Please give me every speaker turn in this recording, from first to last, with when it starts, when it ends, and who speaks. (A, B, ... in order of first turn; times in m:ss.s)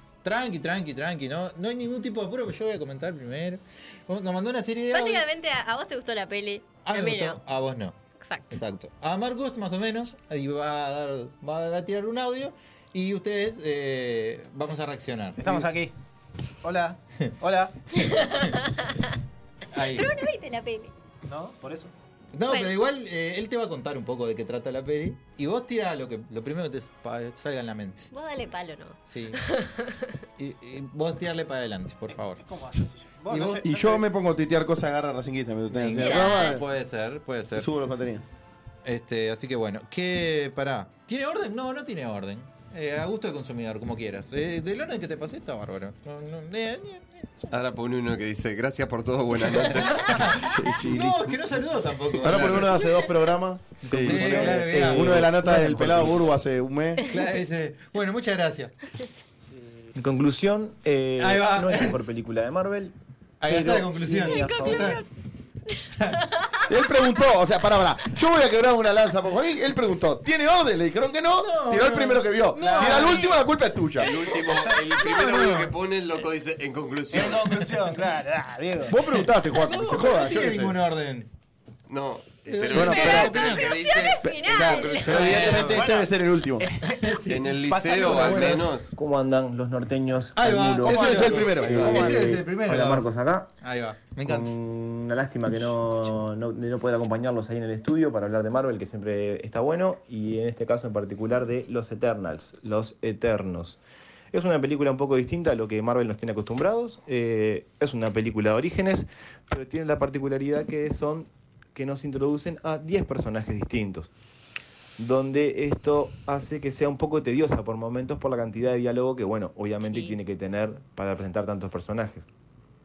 0:00.2-0:05.2 A
0:04.9-0:07.4 B
0:06.8-0:08.0 A
0:08.2-0:08.6 B
0:08.5-0:15.7 A
0:15.4-0:15.9 C
0:16.6-0:17.8 C
0:18.0-0:19.1 B
0:19.7-0:20.1 A
0:19.8-0:20.9 B
0:21.2-0:21.9 C
0:22.3-0:28.1 A
0:22.5-0:22.8 B
0:28.1-0:30.2 B
0:29.1-0:29.4 A
0:30.4-0:32.4 A
0:32.3-0:34.1 C
0:33.3-0:33.6 A
0:33.6-0:36.6 D
0:35.7-0:37.7 A
0:36.0-0:36.6 B
0:37.5-0:38.2 D
0:38.8-0:47.5 A
0:47.5-0:50.4 E
0:49.4-0:52.8 A
0:50.4-0:51.2 D
0:52.2-0:57.1 D
0:53.8-0:56.1 A
0:53.8-0:54.5 E
0:54.4-0:55.2 F
0:57.1-0:58.7 A
0:59.9-1:02.9 F
1:01.2-1:02.0 A
1:03.4-1:05.0 A
1:03.4-1:05.0 F
1:04.1-1:05.1 B
1:05.7-1:06.6 B
1:06.0-1:06.2 A
1:06.7-1:14.1 D
1:11.4-1:13.4 A
1:12.6-1:13.1 C
1:14.0-1:17.7 E
1:14.4-1:14.9 C
1:14.9-1:15.7 A
1:17.1-1:19.0 C
1:18.9-1:20.8 D
1:19.0-1:21.3 A
1:21.9-1:25.7 E
1:22.5-1:23.8 A
1:22.7-1:23.3 D
1:22.7-1:25.4 B
1:24.2-1:26.6 D
1:25.0-1:25.8 A
1:25.7-1:28.7 C
1:26.8-1:28.6 A
1:27.3-1:28.9 E
1:28.8-1:33.5 F
1:30.4-1:33.1 A
1:30.8-1:32.4 D
1:31.4-1:32.2 E
1:33.6-1:34.6 A
1:34.2-1:43.8 F
1:44.3-1:54.1 F
1:55.0-2:02.3 F
1:59.8-2:00.2 B